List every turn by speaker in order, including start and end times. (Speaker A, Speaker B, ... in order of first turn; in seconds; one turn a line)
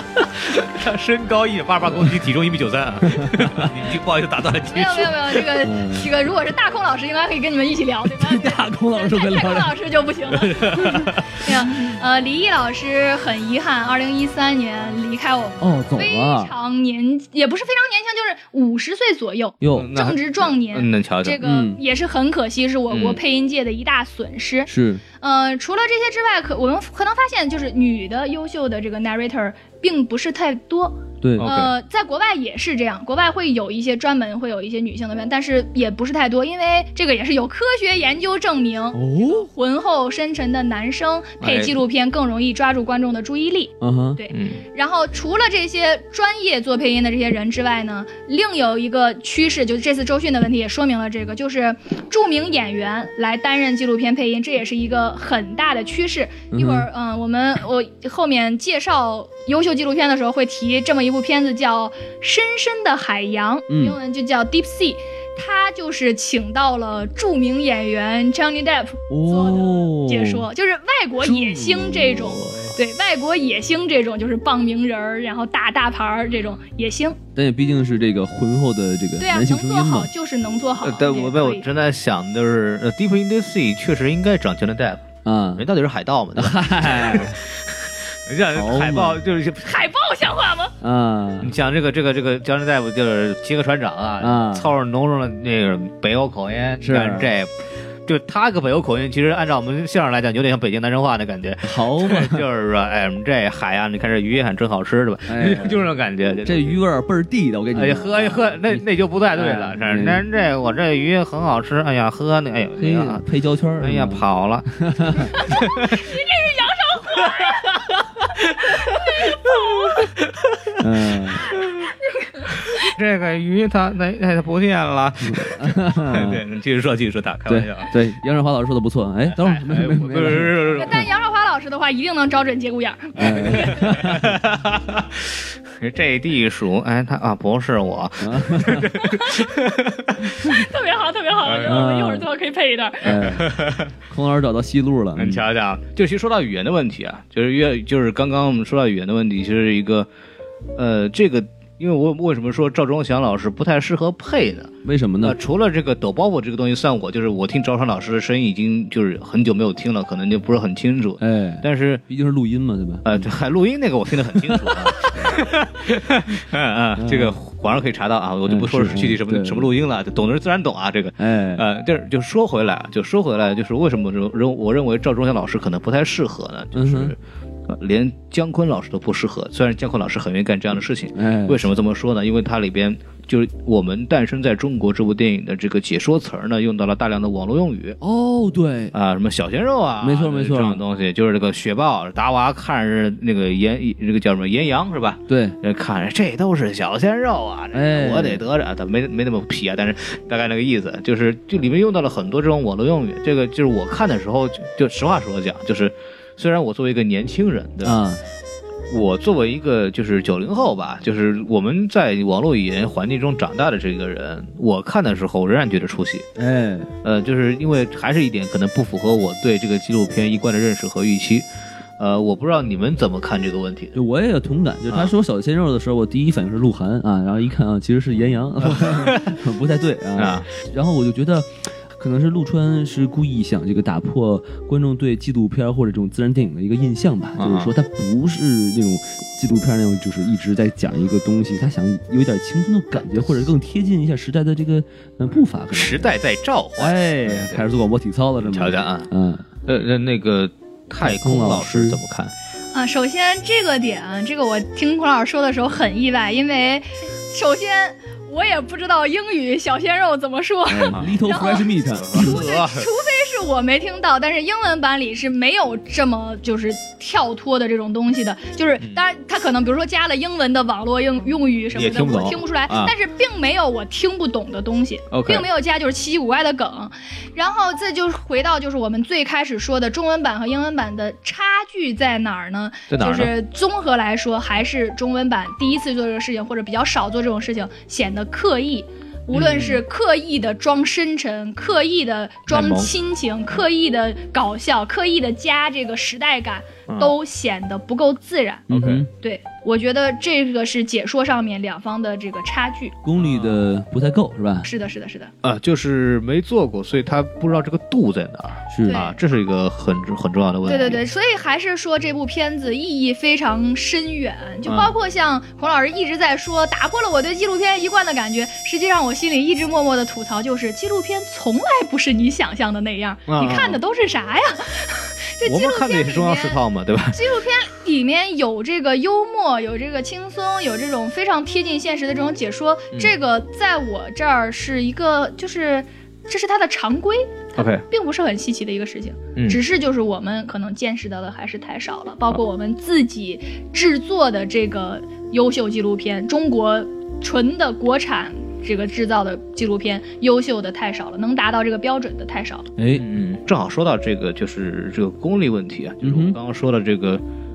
Speaker A: 0.4-5.5
Speaker B: 3.1-3.7
Speaker C: 4.7-77.2
Speaker B: 5.6-6.1
Speaker B: 8.1-9.7
Speaker A: 10.3-11.5
Speaker B: 15.6-16.5
Speaker B: 19.6-19.9
Speaker A: 19.7-21.4
Speaker B: 21.4-21.8
Speaker A: 22.9-23.2
Speaker B: 24.7-25.0
Speaker B: 31.2-31.5
Speaker A: 31.4-31.7
Speaker B: 38.9-39.4
Speaker A: 41.4-41.8
Speaker B: 43.8-44.2
Speaker A: 44.3-44.6
Speaker B: 56.5-56.9
Speaker B: 63.7-64.0
Speaker B: 69.1-70.5
Speaker B: 71.5-72.1
Speaker A: 72.3-72.7
Speaker B: 77.3-80.1
Speaker C: 79.2-81.6
Speaker A: 80.8-89.8
Speaker B: 85.2-85.6
Speaker B: 86.3-87.3
Speaker B: 88.5-89.2
Speaker C: 89.6-90.7
Speaker B: 90.8-91.5
Speaker A: 91.4-106.8
Speaker B: 94.2-94.7
Speaker B: 96.8-97.3
Speaker B: 101.6-102.4
Speaker B: 105.3-105.8
Speaker B: 106.4-108.8
Speaker A: 107.7-113.2
Speaker B: 109.3-110.2
Speaker B: 112.8-115.4
Speaker A: 113.8-114.7
Speaker C: 115.4-117.9
Speaker A: 115.5-116.0
Speaker A: 118.5-120.8
Speaker C: 118.7-120.1
Speaker B: 120.8-121.5
Speaker A: 121.5-121.9
Speaker C: 122.1-122.4
Speaker A: 122.5-127.9
Speaker B: 125.2-126.4
Speaker B: 127.5-130.8
Speaker A: 129.3-131.0
Speaker C: 130.8-134.0
Speaker B: 133.2-134.3
Speaker A: 133.5-140.4
Speaker B: 138.2-138.9
Speaker C: 139.1-139.4
Speaker C: 140.4-143.2
Speaker A: 141.4-141.8
Speaker B: 141.7-142.3
Speaker B: 143.0-143.5
Speaker A: 143.1-143.9
Speaker B: 144.1-145.4
Speaker A: 145.2-150.1
Speaker A: 150.8-162.0
Speaker B: 154.8-155.4
Speaker B: 161.2-163.3
Speaker A: 163.0-188.0
Speaker B: 164.3-165.4
Speaker B: 167.0-167.3
Speaker B: 168.5-169.7
Speaker B: 171.2-171.6
Speaker B: 176.7-177.1
Speaker B: 181.1-181.6
Speaker B: 188.0-188.9
Speaker A: 188.9-208.0
Speaker B: 190.0-190.8
Speaker B: 195.3-195.6
Speaker B: 197.7-198.4
Speaker B: 207.8-208.2
Speaker A: 208.9-216.2
Speaker B: 216.4-216.9
Speaker A: 217.0-221.4
Speaker A: 222.0-223.9
Speaker B: 223.9-246.2
Speaker A: 228.7-229.3
Speaker A: 230.2-230.5
Speaker A: 237.3-237.7
Speaker A: 243.0-243.3
Speaker A: 245.7-247.6
Speaker B: 246.8-249.4
Speaker A: 248.4-249.1
Speaker A: 249.6-252.3
Speaker B: 251.0-252.0
Speaker C: 252.7-303.0
Speaker B: 260.7-262.4
Speaker A: 261.9-262.9
Speaker A: 271.7-272.9
Speaker A: 275.1-275.5
Speaker A: 282.9-283.3
Speaker A: 289.3-289.8
Speaker A: 292.5-292.9
Speaker A: 296.9-297.2
Speaker B: 298.7-299.1
Speaker A: 298.7-299.0
Speaker B: 303.0-304.7
Speaker A: 303.2-303.7
Speaker C: 304.6-305.3
Speaker A: 305.4-311.0
Speaker B: 308.7-309.0
Speaker C: 308.9-309.2
Speaker C: 310.6-326.6
Speaker A: 314.6-314.9
Speaker A: 323.3-323.8
Speaker A: 325.4-327.3
Speaker C: 327.1-352.7
Speaker A: 337.6-337.8
Speaker B: 352.8-353.0
Speaker A: 352.9-357.2
Speaker B: 356.0-356.4